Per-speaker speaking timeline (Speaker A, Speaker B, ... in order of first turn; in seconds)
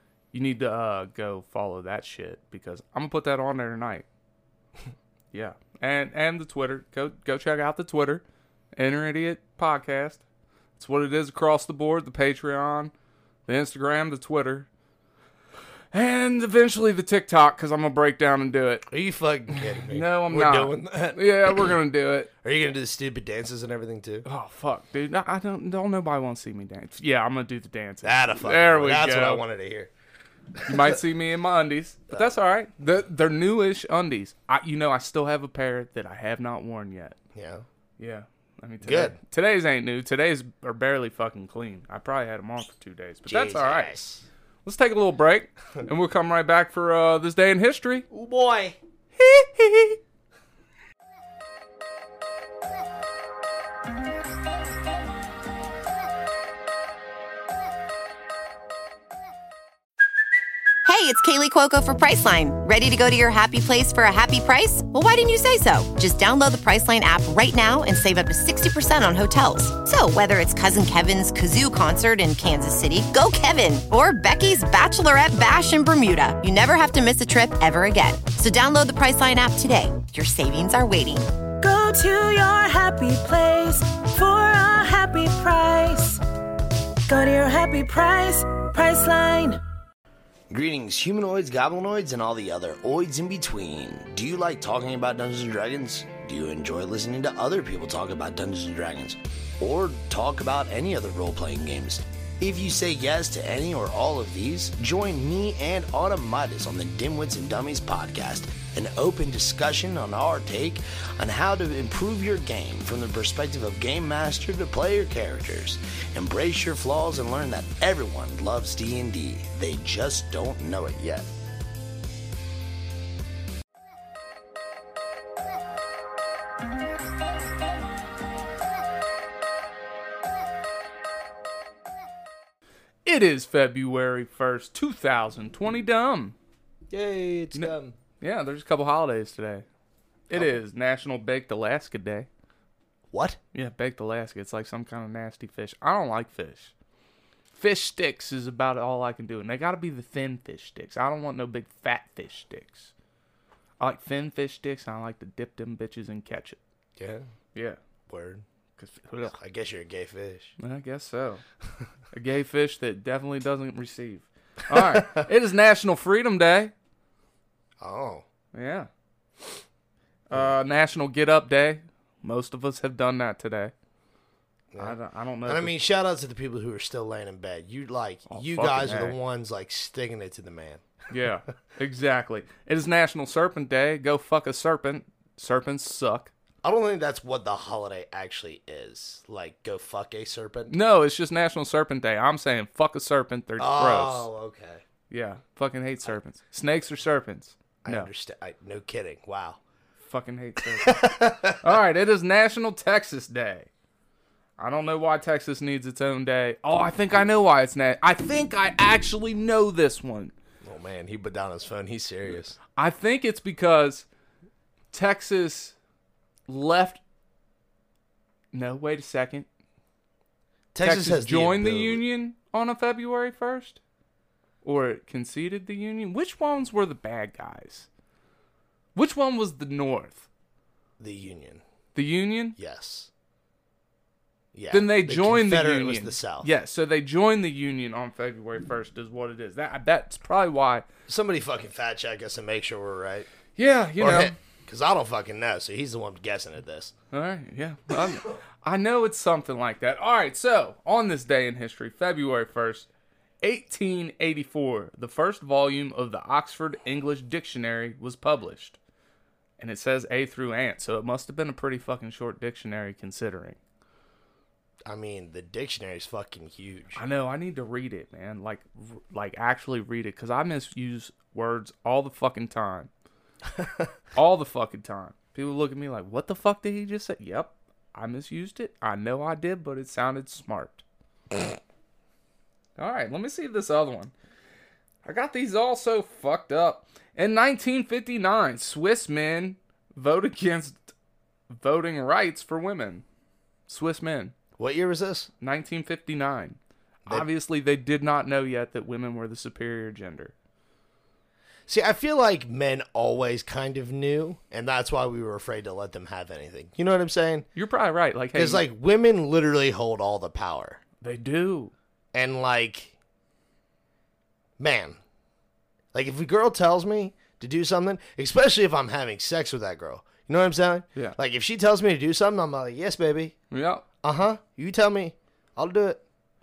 Speaker A: 0.3-4.1, 5.3-8.2, 8.7-10.2, 10.8-12.9, 13.5-14.7, 15.9-18.9, 19.5-22.3, 24.2-29.4, 30.6-37.2, 38.0-44.0, 44.6-48.1, 49.2-50.0, 133.1-136.4, 137.5-139.7, 140.3-142.3, 143.5-146.7, 147.5-152.9, 153.8-156.6, 158.8-159.3, 160.6-161.4, 162.1-166.7, 168.5-168.9, 170.3-173.7, 174.8-175.7, 178.3-179.2, 181.1-186.3, 190.7-194.3, 195.1-198.1, 200.0-203.7, 204.6-210.3, 212.8-214.1, 214.9-215.8, 216.5-217.0, 218.5-219.5, 220.8-223.8, 224.6-227.9, 228.9-230.3, 231.9-232.6, 234.7-240.9, 243.6-244.3, 247.1-252.9, 253.4-258.8, 259.6-263.6, 267.0-272.9, 274.1-280.8, 282.8-284.1, 285.0-290.8, 291.5-293.0, 293.7-294.3, 295.4-300.3, 307.6-308.7, 311.0-311.7, 323.5-323.8
Speaker B: 18.9-21.7, 22.4-24.2, 28.0-29.9, 30.6-30.9, 37.3-37.7, 38.8-39.2, 43.3-44.2, 48.1-48.8, 90.5-121.3, 136.9-138.0, 143.1-143.4, 157.0-157.3, 158.1-158.4, 159.3-160.5, 164.7-165.2, 167.8-168.2, 174.7-180.8, 186.6-190.7, 193.6-194.8, 197.8-199.6, 200.8-201.7, 210.6-212.6, 220.7-222.0, 231.0-231.6, 232.6-233.1, 234.5-236.5, 241.1-243.3, 244.0-246.9, 264.9-267.0, 273.6-273.9, 294.6-295.3, 301.7-307.5, 308.3-310.8, 312.1-312.9, 314.6-315.0, 315.9-323.4, 324.0-326.0
Speaker C: 60.9-81.2
Speaker D: 81.6-86.2, 87.1-89.6